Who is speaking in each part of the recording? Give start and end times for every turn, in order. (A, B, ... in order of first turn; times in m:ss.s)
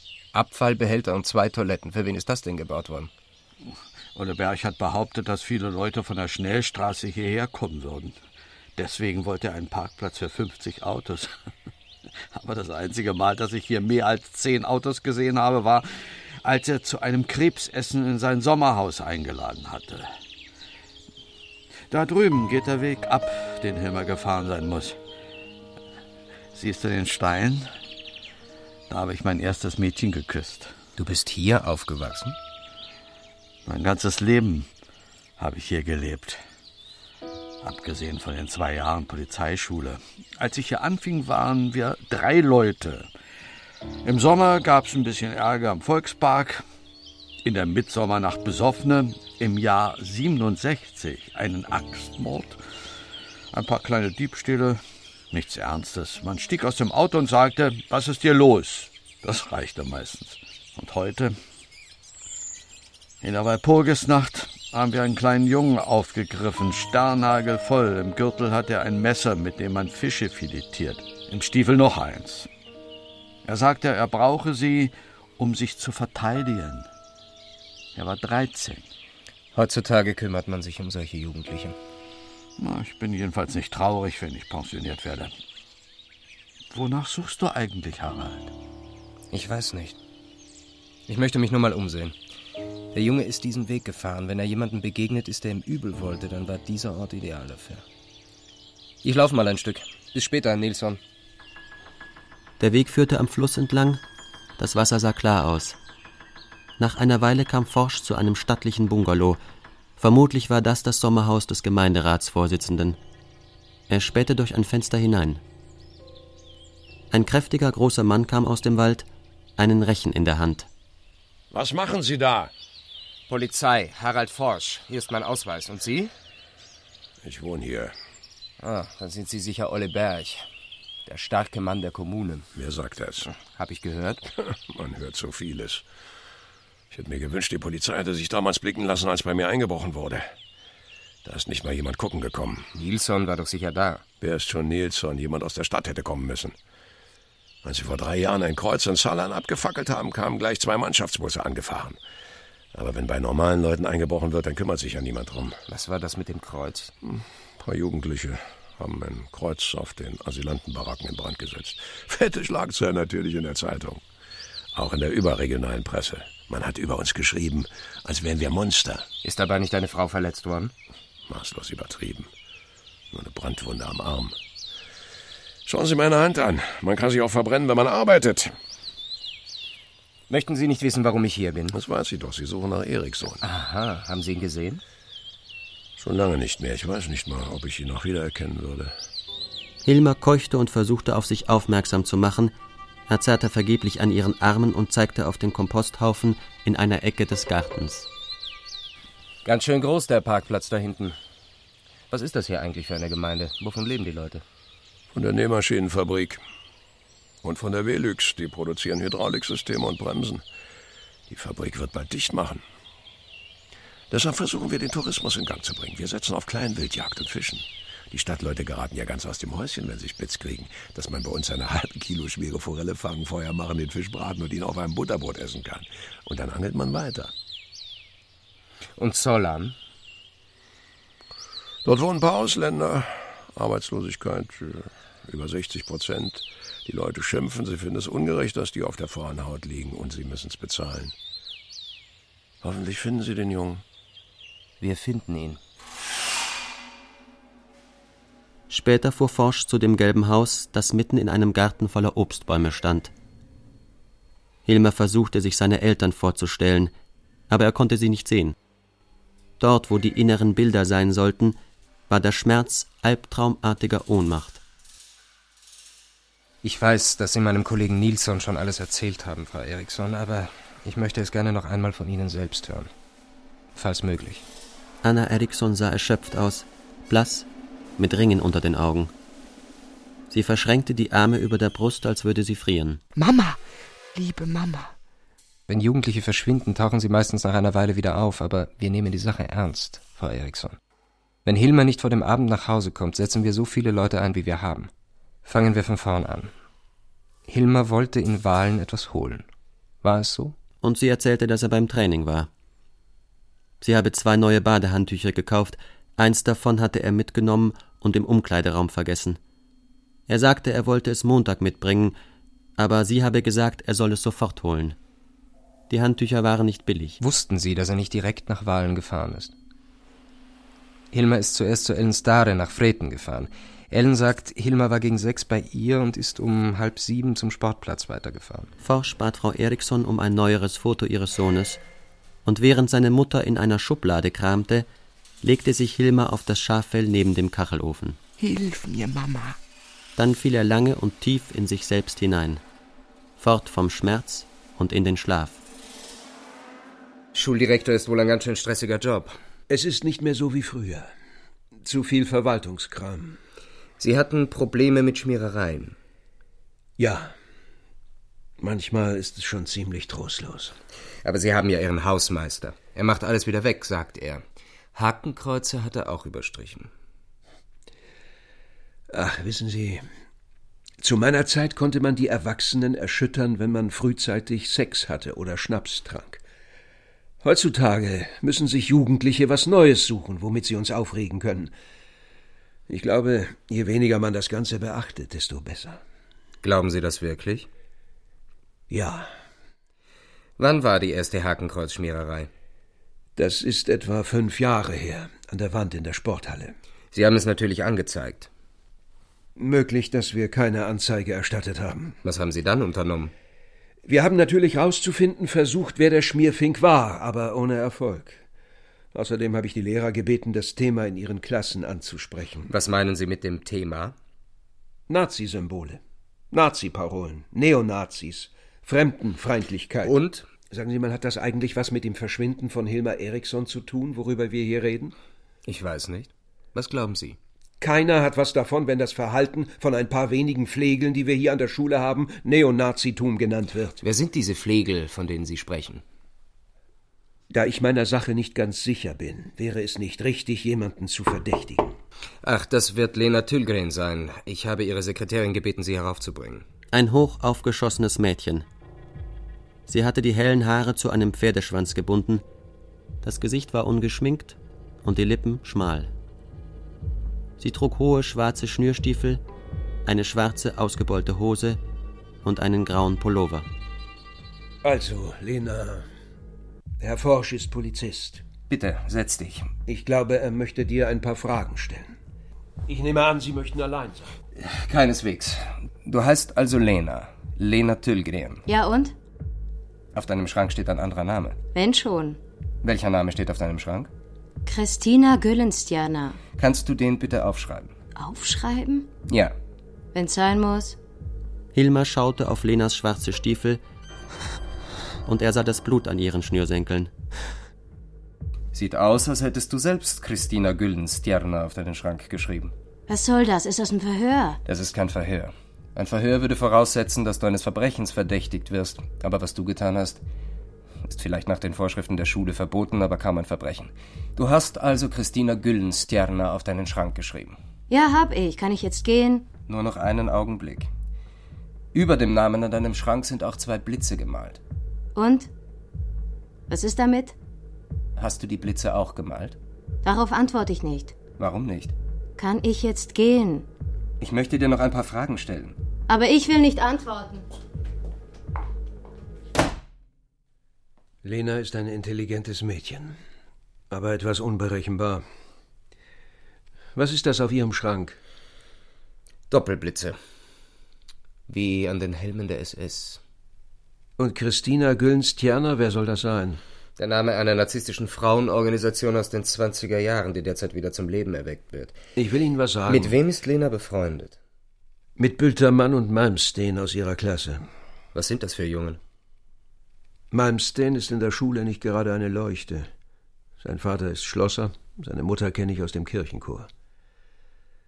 0:00.3-0:03.1 A
0:04.2-0:08.2 B
0:08.8-0:11.3 B
0:12.3-0:20.1 B
0:21.9-0:25.0 B
0:26.5-0:27.7 B
0:28.9-0:30.8 B
0:31.0-0:32.4 A
0:33.7-0:34.7 B
0:35.4-0:36.4 B
0:37.6-0:43.1 B
0:44.0-0:46.6 B
0:47.4-0:52.6 B
0:53.5-1:01.4 B
1:03.2-1:12.5 B
1:13.4-1:16.9 B
1:18.0-1:18.9 B
1:19.5-1:21.8 A
1:22.6-1:25.3 B
1:26.7-1:28.5 B
1:29.3-1:30.0 A
1:31.1-1:32.2 A
1:32.9-1:37.8 A
1:39.0-1:41.0 A
1:42.6-1:44.0 C
1:44.6-1:45.8 C
1:46.8-1:49.4 C
1:50.0-1:53.0 C
1:53.9-1:55.4 C
1:57.1-1:59.1 C
1:59.6-2:00.7 C
2:01.5-2:02.5 D
2:03.3-2:06.1 A
2:07.2-2:07.9 D
2:08.6-2:10.5 A
2:11.1-2:12.5 A
2:12.6-2:13.3 D
2:13.3-2:14.2 A
2:14.4-2:15.8 D
2:16.9-2:20.3 D
2:21.2-2:22.7 D
2:22.8-2:24.0 A
2:24.2-2:26.6 D
2:27.6-2:32.0 D
2:32.7-2:35.6 D
2:35.7-2:36.9 A
2:37.0-2:44.0 D
2:44.7-2:49.1 D
2:49.2-2:50.7 A
2:51.3-2:52.3 D
2:53.1-2:54.4 D
2:55.7-2:58.5 D
3:00.3-3:01.8 A
3:01.7-3:03.4 D
3:03.4-3:04.8 A
3:06.0-3:08.9 D
3:09.8-3:12.5 C
3:13.1-3:18.1 C
3:19.4-3:21.2 A
3:22.1-3:24.4 A
3:25.1-3:26.4 D
3:27.4-3:30.4 D
3:31.3-3:32.6 D
3:34.1-3:47.3 D
3:49.0-3:49.8 A
3:51.8-4:01.2 D
4:02.6-4:03.8 D
4:04.8-4:05.6 A
4:08.7-4:13.1 C
4:14.6-4:16.9 C
4:17.5-4:18.6 C
4:19.6-4:21.6 C
4:22.1-4:24.6 C
4:26.6-4:32.9 A
4:33.8-4:34.4 A
4:35.0-4:37.5 C
4:38.0-4:39.1 C
4:40.3-4:43.0 C
4:43.2-4:43.6 E
4:44.1-4:44.9 E
4:45.7-4:50.8 A
4:51.4-4:54.9 A
4:55.4-4:56.5 A
4:57.5-4:59.5 A
5:00.0-5:00.6 A
5:00.8-5:02.5 C
5:03.8-5:09.4 C
5:10.3-5:12.2 C
5:12.8-5:15.0 C
5:15.9-5:17.2 C
5:17.2-5:19.5 A
5:21.1-5:28.7 A
5:28.8-5:31.8 C
5:32.4-5:34.9 C
5:35.4-5:38.2 C
5:38.4-5:39.6 E
5:40.2-5:42.6 C
5:43.4-5:45.6 C
5:47.3-5:49.4 A
5:49.7-5:51.1 F
5:51.8-5:53.4 F
5:54.0-5:56.0 A
5:57.0-5:57.3 F
5:58.6-6:00.7 F
6:01.2-6:04.4 A
6:05.0-6:06.9 A
6:09.1-6:10.0 F
6:11.0-6:16.4 F
6:17.4-6:21.7 F
6:22.9-6:26.0 F
6:26.6-6:27.7 A
6:28.9-6:29.3 F
6:30.6-6:32.5 A
6:33.4-6:36.8 F
6:37.1-6:38.5 A
6:39.6-6:42.2 F
6:42.2-6:43.3 A
6:44.1-6:48.4 F
6:49.1-6:52.7 F
6:52.7-6:54.2 A
6:55.1-6:56.0 F
6:56.5-7:00.1 F
7:00.0-7:00.5 A
7:00.7-7:05.1 F
7:05.7-7:07.4 A
7:07.8-7:14.0 F
7:14.0-7:16.0 A
7:17.5-7:21.9 F
7:22.4-7:26.6 A
7:26.9-7:28.7 C
7:29.9-7:32.4 C
7:33.2-7:36.1 C
7:37.6-7:39.4 C
7:40.1-7:41.8 C
7:42.4-7:43.7 C
7:44.8-7:46.0 F
7:47.0-7:48.4 F
7:48.7-7:49.7 A
7:49.9-7:52.1 F
7:52.9-7:54.3 F
7:54.6-7:58.6 A
7:58.7-7:59.2 G
8:00.1-8:01.6 A
8:01.7-8:02.4 G
8:02.8-8:04.1 A
8:04.7-8:06.4 G
8:06.5-8:07.9 A
8:08.2-8:09.1 G
8:09.2-8:09.6 A
8:10.1-8:11.0 G
8:11.7-8:13.8 C
8:15.3-8:17.1 C
8:18.7-8:22.7 A
8:23.1-8:24.6 G
8:24.7-8:30.2 A
8:31.1-8:37.6 A
8:37.9-8:39.5 G
8:39.6-8:40.9 A
8:41.9-8:44.6 A
8:45.2-8:45.5 G
8:46.7-8:47.4 G
8:48.2-8:49.6 A
8:50.0-8:51.2 G
8:51.2-8:51.9 A
8:52.4-8:53.7 G
8:54.2-8:55.8 A
8:56.1-8:57.5 G
9:01.2-9:03.2 F
9:03.9-9:05.2 F
9:07.0-9:08.2 F
9:09.5-9:10.2 A
9:11.5-9:13.2 A
9:14.2-9:16.6 F
9:17.0-9:22.0 A
9:22.2-9:23.2 F
9:22.9-9:24.4 A
9:25.2-9:27.6 F
9:28.1-9:29.0 A
9:30.3-9:32.9 F
9:33.6-9:36.7 F